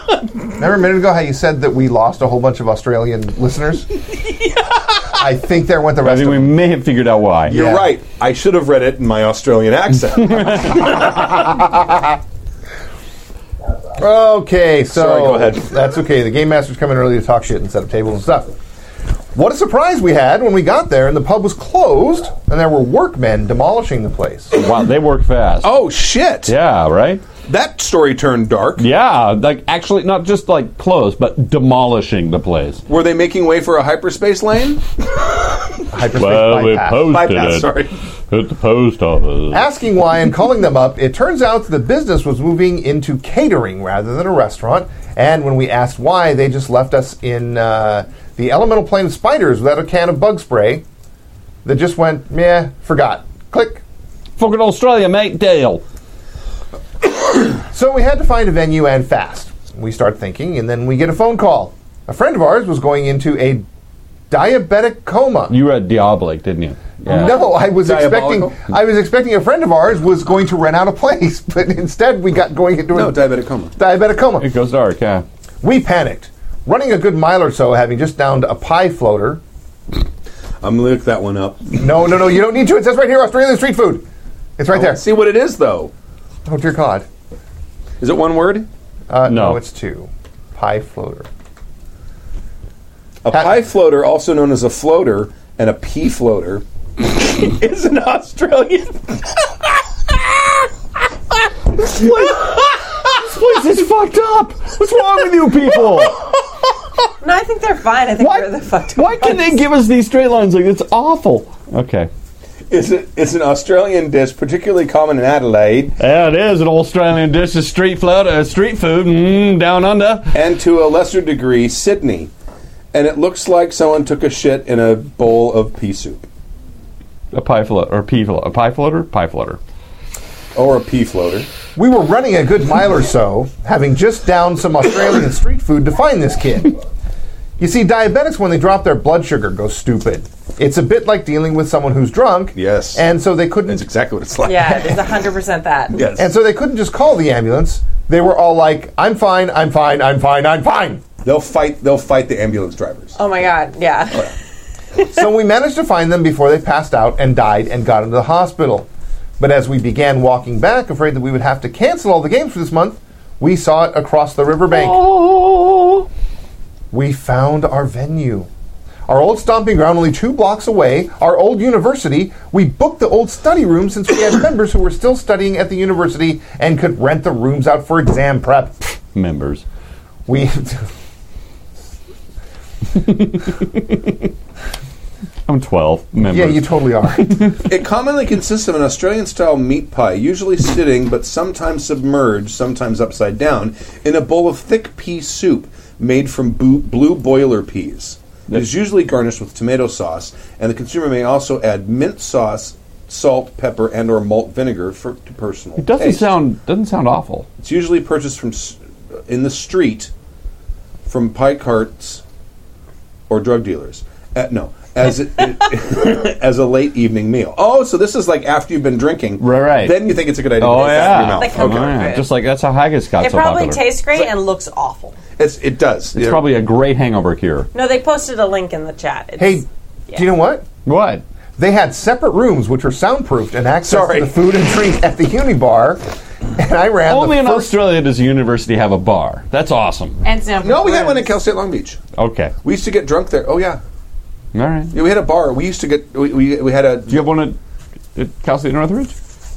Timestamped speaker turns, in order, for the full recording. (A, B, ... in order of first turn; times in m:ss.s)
0:00.5-0:03.9 A
0:05.0-0:06.6 A
0:06.0-0:07.5 B
0:07.5-0:07.9 A
0:07.5-0:11.0 C
0:10.4-0:10.9 B
0:11.1-0:12.0 A
0:14.0-0:18.5 A
0:14.9-0:15.6 C
0:19.3-0:24.5 A
0:24.5-0:25.8 B
0:25.6-0:26.5 C
0:26.4-0:27.2 B
0:27.4-0:28.9 C
0:28.8-0:32.8 B
0:32.9-0:34.8 C
0:35.9-0:37.1 A
0:36.1-0:37.7 B
0:37.1-0:38.0 C
0:38.3-0:39.6 B
0:39.5-0:50.8 A
0:51.6-0:53.8 A
0:54.4-0:55.8 B
0:57.6-1:03.6 A
1:04.3-1:05.6 A
1:05.5-1:07.4 B
1:07.0-1:14.5 A
1:07.1-1:08.6 C
1:12.9-1:13.7 C
1:14.4-1:15.2 B
1:15.6-1:19.4 A
1:20.6-1:21.8 C
1:21.7-1:24.0 A
1:24.6-1:25.0 A
1:24.7-1:25.9 C
1:26.4-1:27.1 A
1:28.0-1:28.7 C
1:29.1-1:31.3 A
1:29.2-1:29.6 B
1:33.2-1:39.2 C
1:41.8-1:46.2 B
1:47.2-1:49.6 D
1:48.2-1:52.1 B
1:52.7-1:56.0 C
1:56.0-2:00.3 B
2:00.3-2:02.3 C
2:02.9-2:06.2 C
2:07.3-2:09.6 B
2:10.5-2:11.5 C
2:11.8-2:16.8 A
2:17.6-2:23.9 A
2:22.5-2:23.0 C
2:23.6-2:25.1 C
2:24.4-2:26.0 D
2:25.9-2:26.3 C
2:26.2-2:31.0 A
2:31.2-2:33.2 C
2:33.2-2:34.3 D
2:35.1-2:45.1 A
2:44.7-2:46.1 B
2:46.9-2:48.5 A
2:49.1-2:58.8 A
2:59.1-2:59.6 B
3:00.3-3:00.9 A
3:03.0-3:04.3 B
3:05.5-3:07.6 B
3:06.2-3:07.6 A
3:07.7-3:26.3 C
3:25.8-3:27.5 B
3:27.6-3:30.1 C
3:31.0-3:32.2 C
3:33.3-3:42.1 C
3:39.4-3:43.8 B
3:41.0-3:42.3 D
3:43.2-3:45.2 D
3:45.4-3:46.5 C
3:46.1-3:47.7 B
3:47.7-3:50.3 D
3:49.4-3:50.7 A
3:50.8-3:51.2 B
3:51.6-3:56.0 A
3:53.8-3:54.4 C
3:56.5-3:57.8 A
3:57.0-4:00.2 B
4:00.2-4:01.3 D
4:00.6-4:02.0 C
4:02.2-4:02.5 B
4:02.6-4:03.8 C
4:04.5-4:04.9 B
4:04.9-4:07.3 C
4:07.1-4:07.6 B
4:08.1-4:09.1 B